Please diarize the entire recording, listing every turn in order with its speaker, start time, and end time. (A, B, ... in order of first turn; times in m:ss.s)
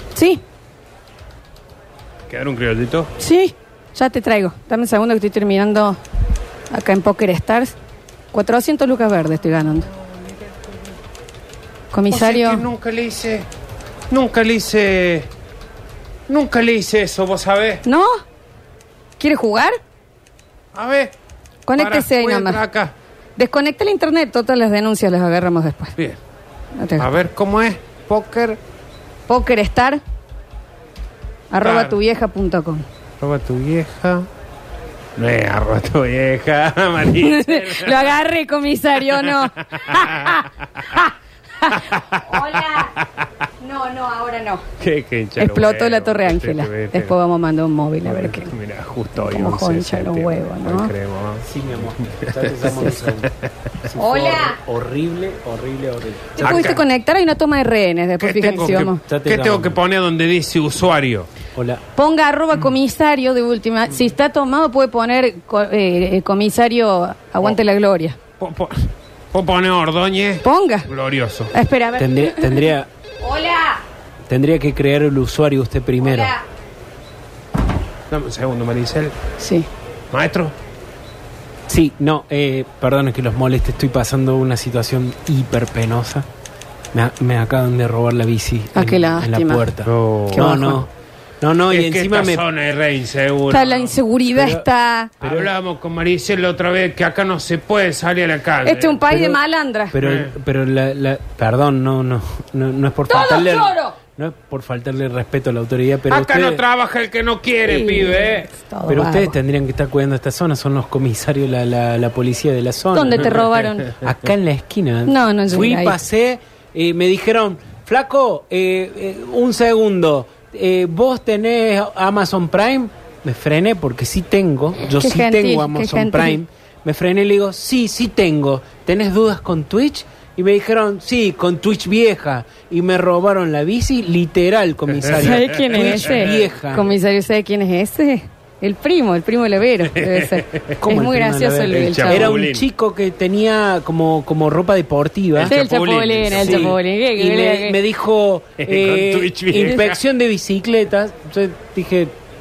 0:00.1-0:00.4 A
0:02.3-0:03.1 B
0:03.2-0:06.0 A
0:06.7-0:07.8 A
0:08.3-0:09.9 A
0:11.9-0:12.7 A
0:12.1-0:13.5 B
0:14.1-0:15.3 B
0:16.3-0:17.8 B
0:17.8-0:18.2 A
0:19.2-0:19.8 A
0:20.8-0:21.1 B
0:21.7-0:22.6 A
0:21.8-0:22.9 B
0:23.4-0:25.9 A
0:26.8-0:27.1 A
0:27.0-0:28.6 B
0:29.3-0:30.0 A
0:31.5-0:32.8 A
0:31.6-0:32.0 B
0:33.2-0:34.3 B
0:35.2-0:38.2 B
0:37.2-0:41.1 A
0:39.1-0:41.0 B
0:41.6-0:42.9 A
0:41.6-0:43.3 B
0:43.6-0:44.6 A
0:44.8-0:47.2 B
0:45.4-0:48.5 A
0:48.0-0:53.7 B
0:49.2-0:50.9 A
0:51.4-0:53.3 C
0:53.8-0:56.8 C
0:54.0-0:54.6 A
0:56.4-0:59.0 A
0:56.4-0:56.8 B
0:58.2-1:01.3 B
0:59.1-0:59.8 C
1:01.5-1:01.8 C
1:02.0-1:08.2 A
1:08.4-1:11.5 B
1:10.4-1:10.9 A
1:11.5-1:13.8 A
1:12.0-1:12.9 C
1:14.3-1:16.3 C
1:16.0-1:16.4 A
1:18.1-1:19.2 B
1:19.4-1:19.7 A
1:20.1-1:20.5 B
1:21.7-1:26.3 C
1:26.9-1:30.9 C
1:28.7-1:29.7 A
1:29.8-1:30.5 B
1:30.3-1:30.8 A
1:31.4-1:32.4 C
1:31.7-1:34.0 B
1:33.5-1:35.1 A
1:34.3-1:34.6 C
1:35.2-1:39.0 B
1:35.2-1:35.5 C
1:38.6-1:40.0 A
1:39.1-1:39.4 C
1:39.9-1:46.6 C
1:40.0-1:40.3 B
1:43.1-1:44.0 A
1:46.1-1:48.5 B
1:47.6-1:49.4 A
1:48.9-2:17.0 C
1:52.9-1:54.0 A
1:55.0-1:56.0 A
2:04.9-2:06.4 A
2:15.0-2:16.5 B
2:15.1-2:22.4 A
2:19.9-2:20.7 B
2:20.8-2:25.5 C
2:21.7-2:22.7 B
2:25.4-2:26.8 B
2:25.5-2:27.8 A
2:26.3-2:32.1 C
2:28.6-2:30.0 B